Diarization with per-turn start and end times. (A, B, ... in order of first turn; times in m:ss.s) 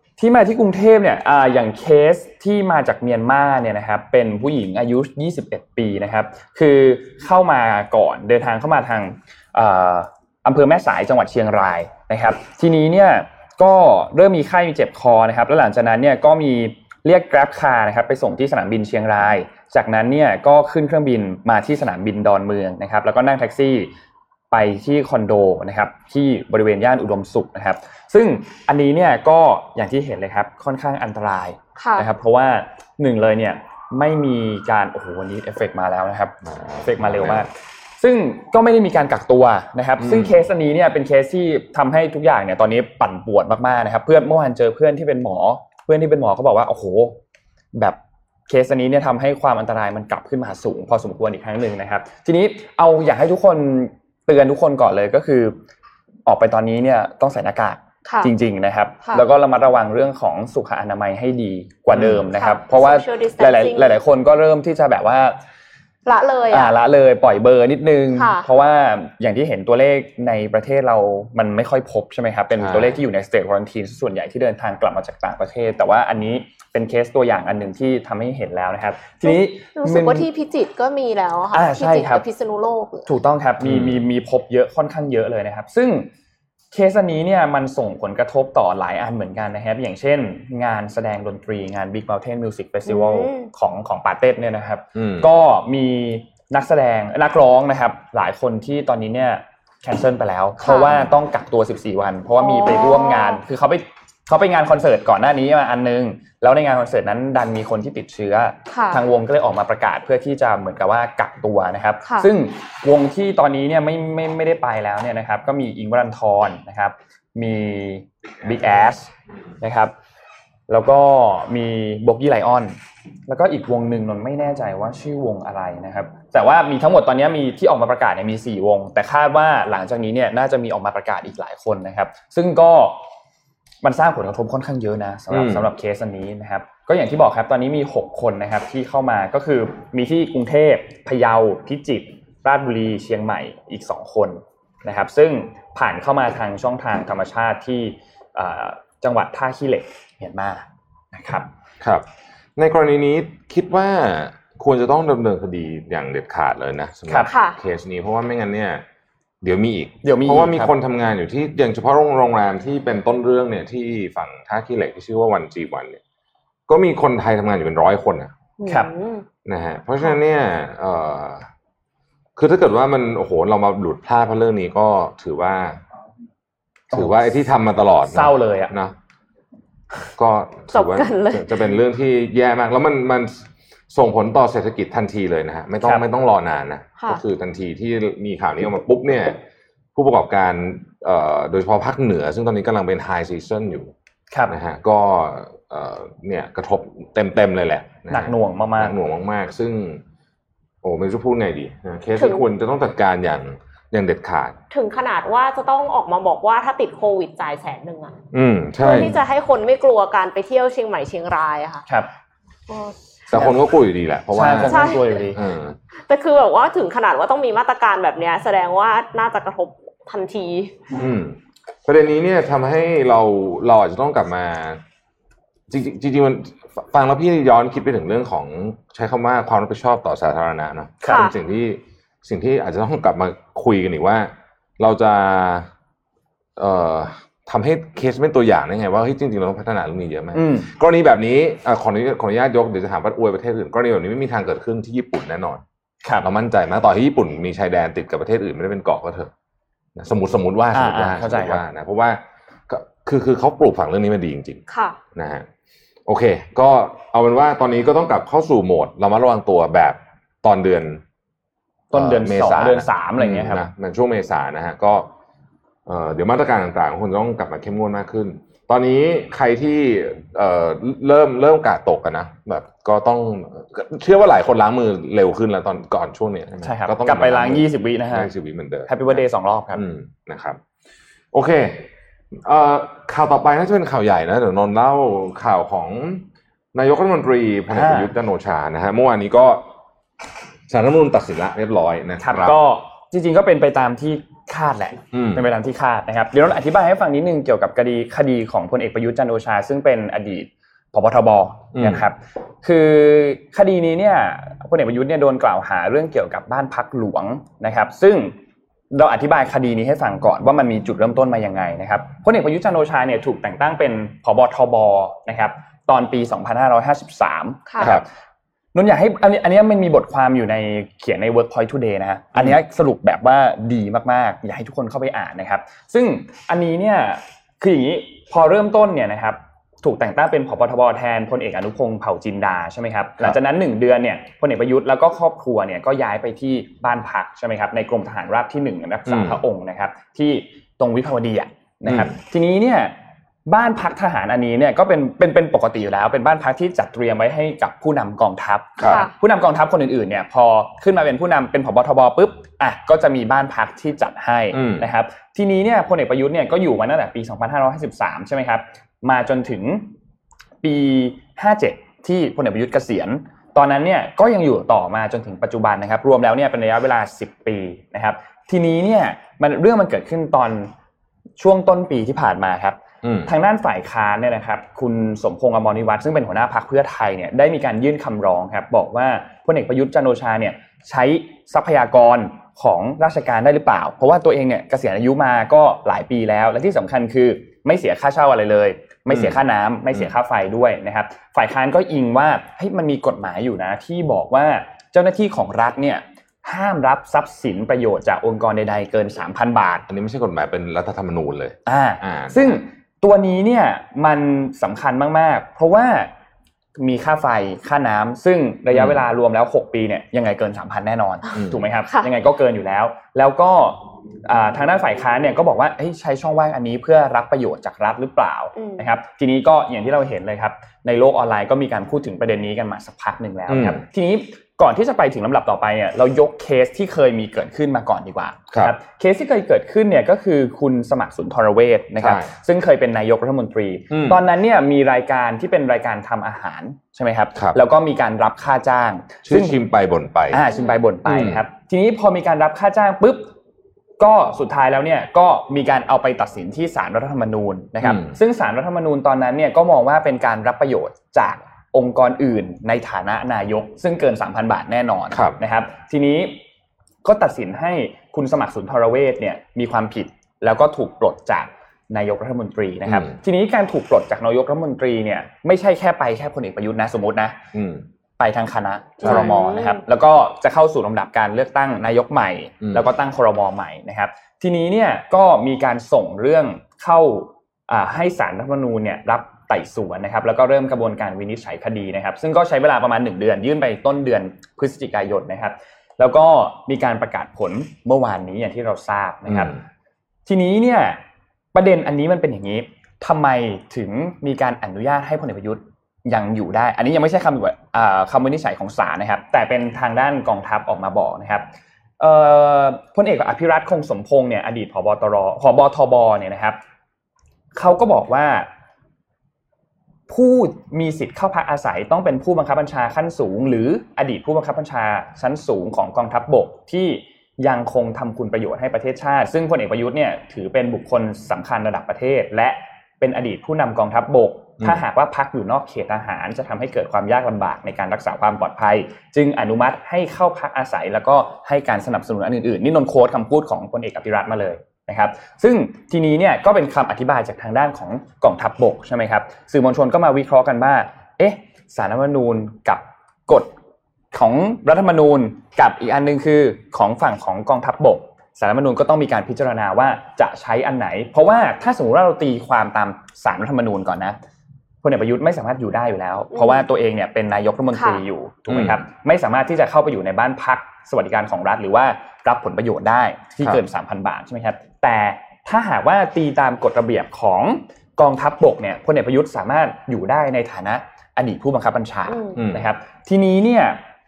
0:00.2-0:23.9 A
0:24.5-0:47.2 A
0:31.8-0:32.1 B
0:36.4-0:37.5 C
0:40.0-0:40.4 C
0:47.7-0:55.6 A
0:56.2-1:05.4 A
0:58.0-0:58.3 B
1:01.9-1:02.2 C
1:02.3-1:04.0 B
1:06.0-1:06.7 B
1:06.5-1:20.3 A
1:08.2-1:08.4 B
1:12.6-1:13.0 C
1:19.2-1:23.1 B
1:21.5-1:22.2 A
1:23.0-1:26.1 A
1:23.6-1:24.0 C
1:26.7-1:59.9 A
1:32.9-1:33.5 B
1:34.9-1:35.3 C
1:40.6-1:41.0 B
1:42.4-1:43.4 B
1:48.7-1:49.0 B
2:00.7-2:02.8 A
2:03.3-2:13.0 A
2:13.8-2:31.5 A
2:15.3-2:15.7 C
2:32.6-2:38.8 C
2:37.1-2:37.3 A
2:37.3-2:37.6 B
2:39.4-2:46.0 C
2:40.0-2:40.7 A
2:46.7-2:48.3 C
2:48.6-2:49.2 B
2:48.6-2:48.9 A
2:49.4-2:51.5 C
2:52.4-2:55.8 C
2:56.9-2:57.2 A
2:56.9-2:59.0 C
2:58.1-2:58.7 A
3:00.1-3:09.4 C
3:00.7-3:01.6 B
3:09.9-3:13.9 C
3:14.5-3:20.0 C
3:18.1-3:19.0 A
3:20.8-3:24.6 C
3:22.2-3:22.5 B
3:24.7-3:28.2 B
3:28.3-3:29.2 C
3:28.8-3:31.8 B
3:32.7-3:33.0 B
3:33.3-3:35.8 C
3:34.3-3:35.4 A
3:34.6-3:35.2 B
3:36.1-3:40.8 B
3:40.9-3:44.8 C
3:45.7-3:55.7 C
3:51.0-3:51.3 A
3:51.1-3:51.3 B
3:56.6-4:05.6 C
4:00.3-4:00.7 A
4:06.2-4:09.3 C
4:10.0-4:14.6 C
4:10.7-4:11.6 A
4:14.7-4:15.0 B
4:15.1-4:15.4 C
4:16.1-4:21.0 C
4:21.9-4:23.6 A
4:21.9-4:25.1 C
4:25.8-4:39.2 C
4:36.6-4:38.3 A
4:38.9-4:39.8 A
4:39.7-4:40.6 C
4:41.3-4:49.7 C
4:47.7-4:48.1 A
4:50.7-4:52.6 C
4:52.2-5:08.3 A
4:55.1-4:55.4 C
5:01.7-5:02.0 C
5:08.9-5:18.0 A
5:18.7-5:42.9 A
5:39.0-5:39.4 C
5:41.8-5:42.1 C
5:43.4-5:59.9 A
5:48.8-5:49.1 C
5:48.8-5:49.1 B
5:54.5-5:54.9 C
6:00.6-6:10.7 A
6:11.4-6:39.8 A
6:13.0-6:13.3 C
6:29.1-6:29.4 C
6:39.9-6:42.6 C
6:41.6-6:46.1 A
6:46.8-7:19.6 A
6:48.7-6:49.0 C
6:51.3-6:51.6 C
6:58.6-6:58.8 B
7:03.5-7:03.8 C
7:12.0-7:12.3 C
7:13.9-7:14.2 C
7:19.2-7:20.4 C
7:20.3-7:23.3 A
7:20.5-7:20.8 B
7:21.0-7:21.4 C
7:24.0-7:36.4 A
7:27.8-7:28.1 C
7:35.1-7:35.4 C
7:37.0-7:47.4 A
7:42.8-7:43.2 C
7:47.5-7:47.8 C
7:48.2-8:09.6 A
7:49.0-7:49.8 B
7:49.0-7:49.3 C
7:52.6-7:52.9 C
8:09.3-8:09.6 C
8:10.2-8:11.0 A
8:11.5-8:26.6 A
8:27.5-8:28.5 A
8:30.1-9:03.5 A
9:04.1-9:14.2 A
9:14.8-9:33.8 A
9:16.3-9:16.6 B
9:17.7-9:18.0 B
9:18.5-9:18.8 C
9:32.3-9:32.7 C